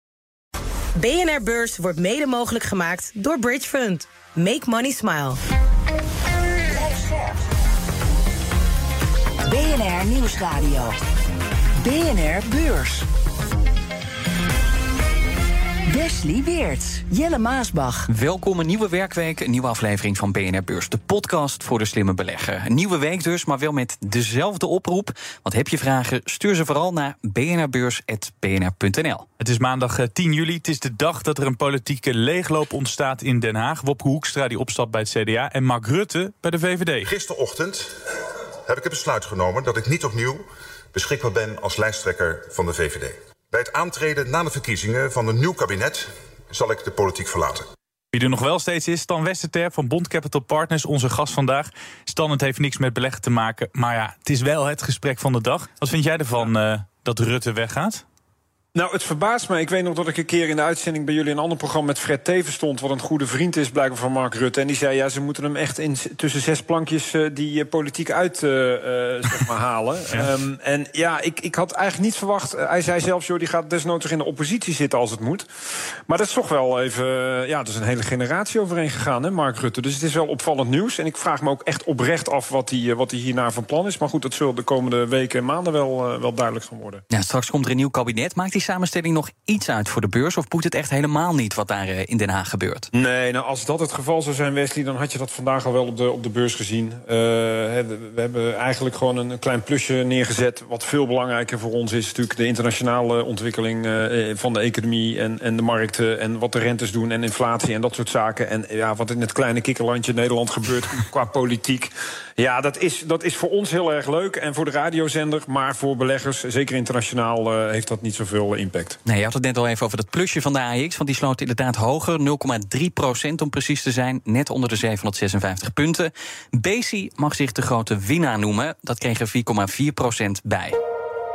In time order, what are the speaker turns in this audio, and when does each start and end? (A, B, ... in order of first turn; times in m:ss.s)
0:01.0-0:05.4 A
0:06.7-0:07.4 B
0:09.4-0:11.0 B
0:11.8-0:13.0 B
0:15.9-0:18.1 B
0:18.1-0:29.2 C
0:29.4-0:37.1 D
0:37.0-0:38.0 E
0:38.6-0:47.6 E
0:48.1-0:58.0 D
0:58.7-1:15.5 F
1:16.1-1:27.0 F
1:27.1-1:32.9 C
1:32.9-1:59.0 F
1:59.1-2:10.8 C